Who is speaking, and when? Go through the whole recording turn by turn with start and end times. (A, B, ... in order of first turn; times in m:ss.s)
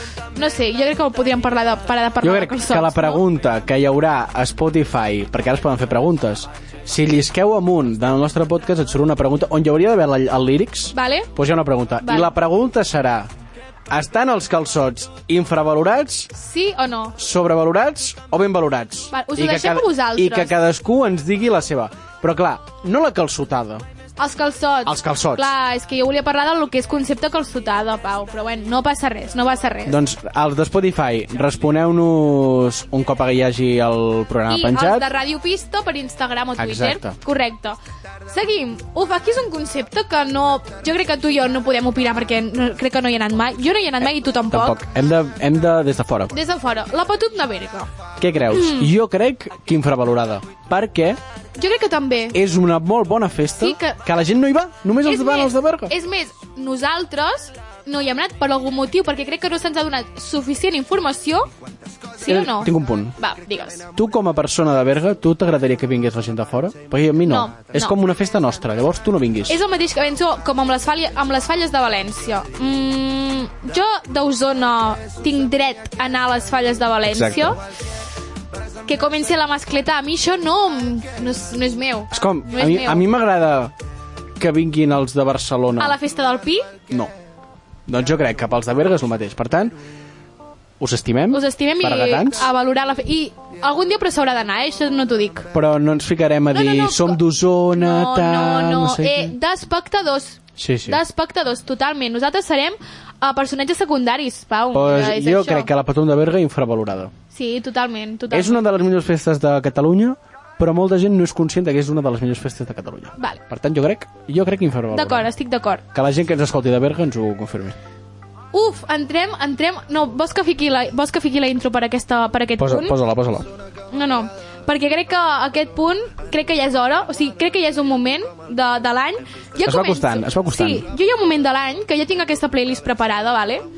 0:00.4-0:03.2 A
0:02.2-0:13.3 B
0:10.9-0:11.3 A
0:12.0-0:12.3 A
0:13.9-0:16.3 B
0:16.3-0:17.2 A
0:17.2-0:23.8 B
0:19.1-0:20.5 A
0:24.2-0:30.0 A
0:24.8-0:25.5 B
0:29.9-0:35.1 B
0:34.5-0:44.8 A
0:36.6-0:37.2 B
0:44.5-0:46.3 B
0:46.3-0:47.9 A
0:48.2-0:51.2 B
0:48.5-0:48.9 A
0:51.6-0:52.4 A
0:52.3-0:55.9 B
0:53.6-0:54.0 A
0:55.0-1:01.5 A
1:02.2-1:03.9 A
1:02.2-1:03.2 B
1:03.9-1:09.6 B
1:07.2-1:08.0 A
1:09.5-1:17.6 A
1:17.0-1:17.6 B
1:18.9-1:23.0 A
1:22.1-1:23.7 B
1:24.4-1:26.0 B
1:25.8-1:26.7 A
1:27.9-1:29.8 B
1:30.8-1:32.5 B
1:31.3-1:35.5 A
1:35.5-1:39.3 B
1:36.5-1:37.2 A
1:37.7-1:45.7 A
1:40.6-1:41.0 B
1:44.7-1:47.1 B
1:47.3-1:48.6 A
1:48.3-1:55.3 B
1:54.9-1:55.8 A
1:55.9-1:57.8 B
1:58.5-2:03.0 A
2:02.6-2:03.5 B
2:03.9-2:13.6 A
2:09.6-2:10.9 B